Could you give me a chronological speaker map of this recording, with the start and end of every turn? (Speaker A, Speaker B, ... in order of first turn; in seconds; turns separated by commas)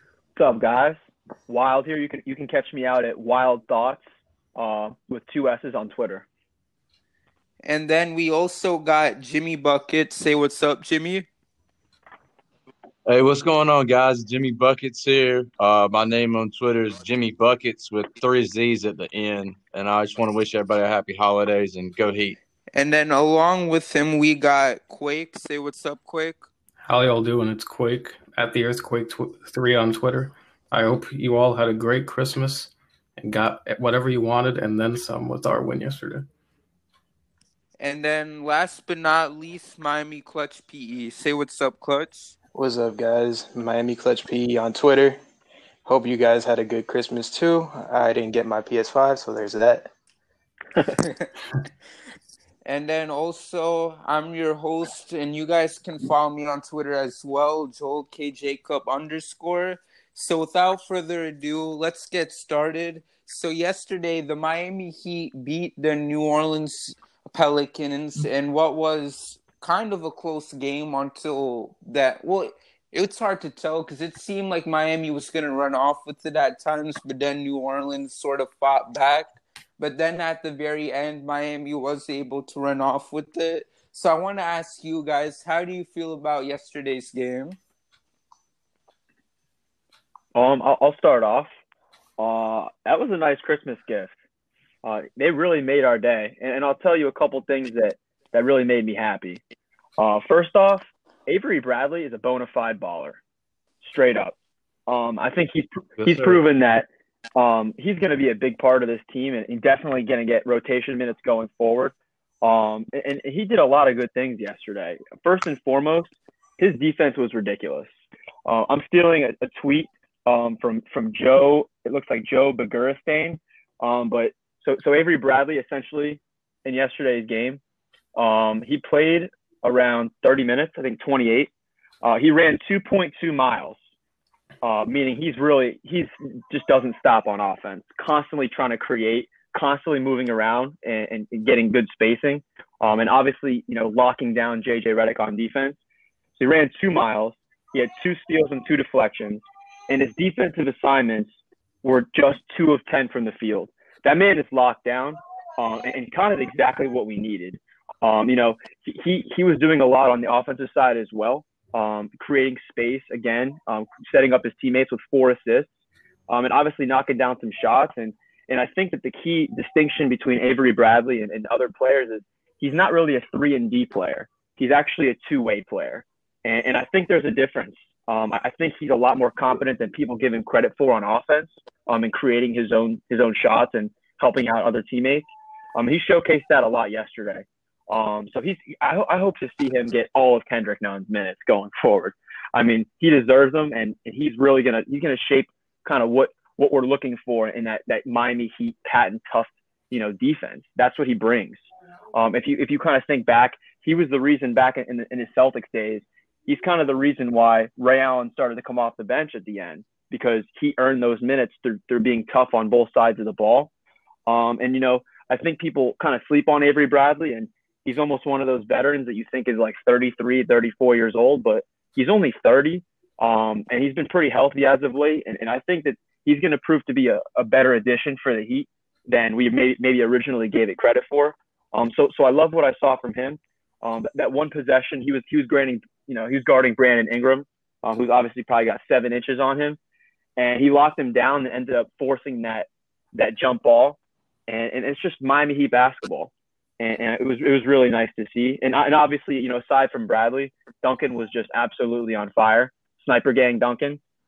Speaker A: 0.3-4.0, Speaker A: 4.5-6.2, Speaker B: 7.6-11.3, Speaker C: 13.1-22.4, Speaker B: 22.7-26.4, Speaker D: 26.8-36.3, Speaker B: 37.8-42.3, Speaker E: 42.5-45.2, Speaker E: 45.9-49.9, Speaker B: 50.9-51.3, Speaker B: 52.6-87.6, Speaker A: 90.3-91.5, Speaker A: 92.2-94.1, Speaker A: 94.8-99.4, Speaker A: 100.0-103.2, Speaker A: 103.8-104.3, Speaker A: 104.9-117.9, Speaker C: 106.0-106.4, Speaker A: 118.4-127.6, Speaker A: 128.1-131.5, Speaker A: 132.0-133.8, Speaker A: 134.6-145.8, Speaker A: 146.4-165.7, Speaker A: 166.3-201.6, Speaker A: 202.1-213.7, Speaker A: 214.3-239.8, Speaker A: 240.4-254.0